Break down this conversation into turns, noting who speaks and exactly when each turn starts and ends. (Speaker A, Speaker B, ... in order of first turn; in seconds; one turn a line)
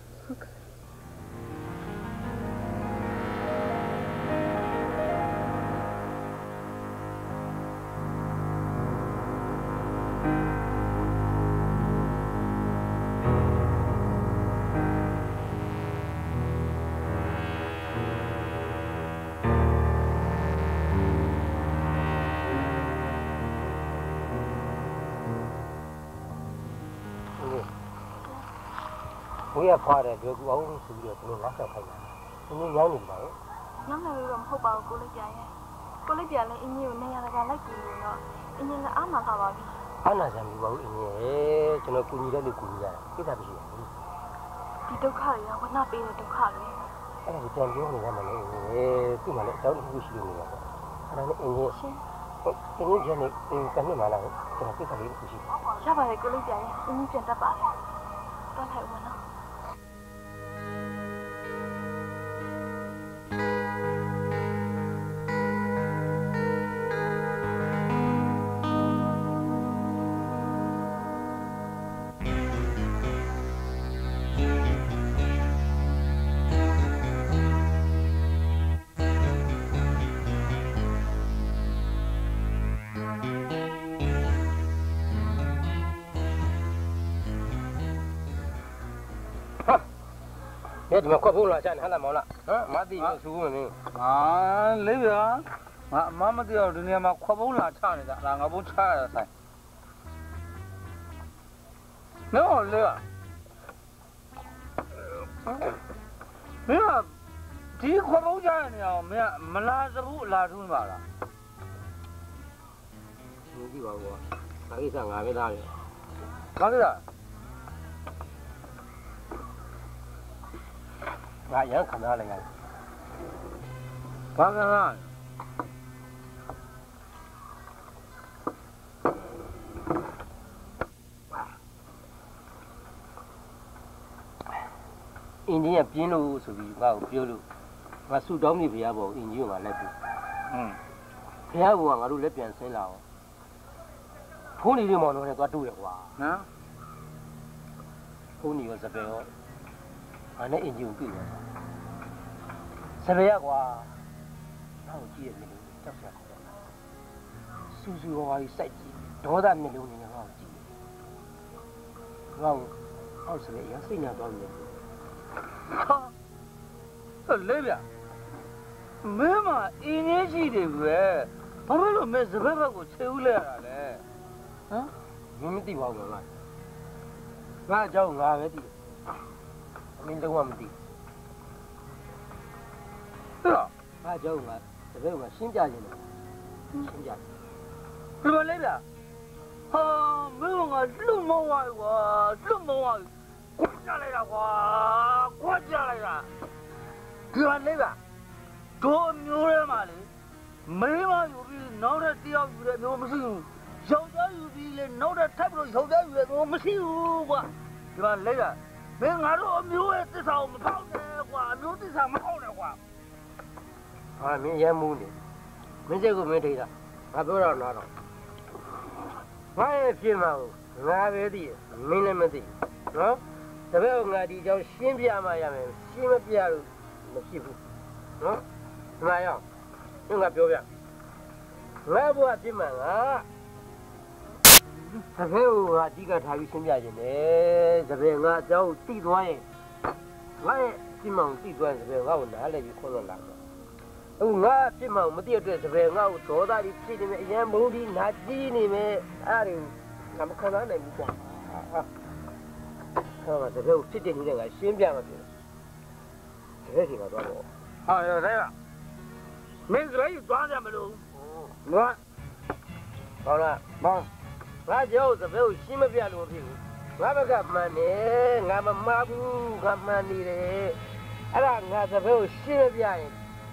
Speaker A: 0.3-0.6
Speaker B: 27.4-27.7
Speaker B: 29.5-33.4
Speaker A: 33.9-39.8
Speaker B: 40.0-44.0
Speaker A: 44.9-46.9
Speaker B: 47.2-51.8
Speaker A: 51.7-52.0
Speaker B: 52.4-55.4
Speaker A: 55.8-57.8
Speaker A: 58.5-59.3
Speaker B: 90.9-93.8
Speaker C: 93.9-99.3
Speaker C: 102.3-103.0
Speaker C: 106.7-107.1
Speaker C: 107.8-111.0
Speaker B: 113.5-115.7
Speaker C: 116.6-117.0
Speaker B: 121.5-122.5
Speaker C: 124.4-125.1
Speaker B: 135.5-137.4
Speaker B: 138.1-139.9
Speaker C: 140.5-140.8
Speaker B: 141.5-143.0
Speaker B: 144.6-146.2
Speaker C: 146.2-146.5
Speaker B: 148.4-149.3
Speaker B: 150.4-151.4
Speaker B: 153.0-154.0
Speaker B: 154.8-156.5
Speaker B: 157.7-160.7
Speaker B: 162.3-164.8
Speaker C: 165.8-166.1
Speaker C: 167.3-167.8
Speaker C: 169.0-174.0
Speaker B: 175.4-176.3
Speaker B: 177.7-178.7
Speaker B: 180.0-180.8
Speaker C: 183.4-183.7
Speaker B: 184.0-186.1
Speaker B: 186.8-187.3
Speaker C: 188.2-188.8
Speaker C: 189.7-196.3
Speaker C: 197.3-198.0
Speaker C: 198.8-200.1
Speaker C: 200.7-212.8
Speaker B: 214.2-215.2
Speaker B: 215.9-217.9
Speaker B: 219.6-227.6
Speaker B: 229.0-229.4
Speaker B: 230.1-230.7
Speaker B: 231.8-233.3
Speaker B: 235.0-239.5
Speaker B: 240.4-243.4
Speaker B: 244.2-251.8
Speaker B: 253.2-255.3
Speaker B: 256.6-257.5
Speaker C: 257.9-258.5
Speaker C: 259.7-261.0
Speaker C: 261.7-262.0
Speaker B: 263.2-263.7
Speaker B: 264.6-273.2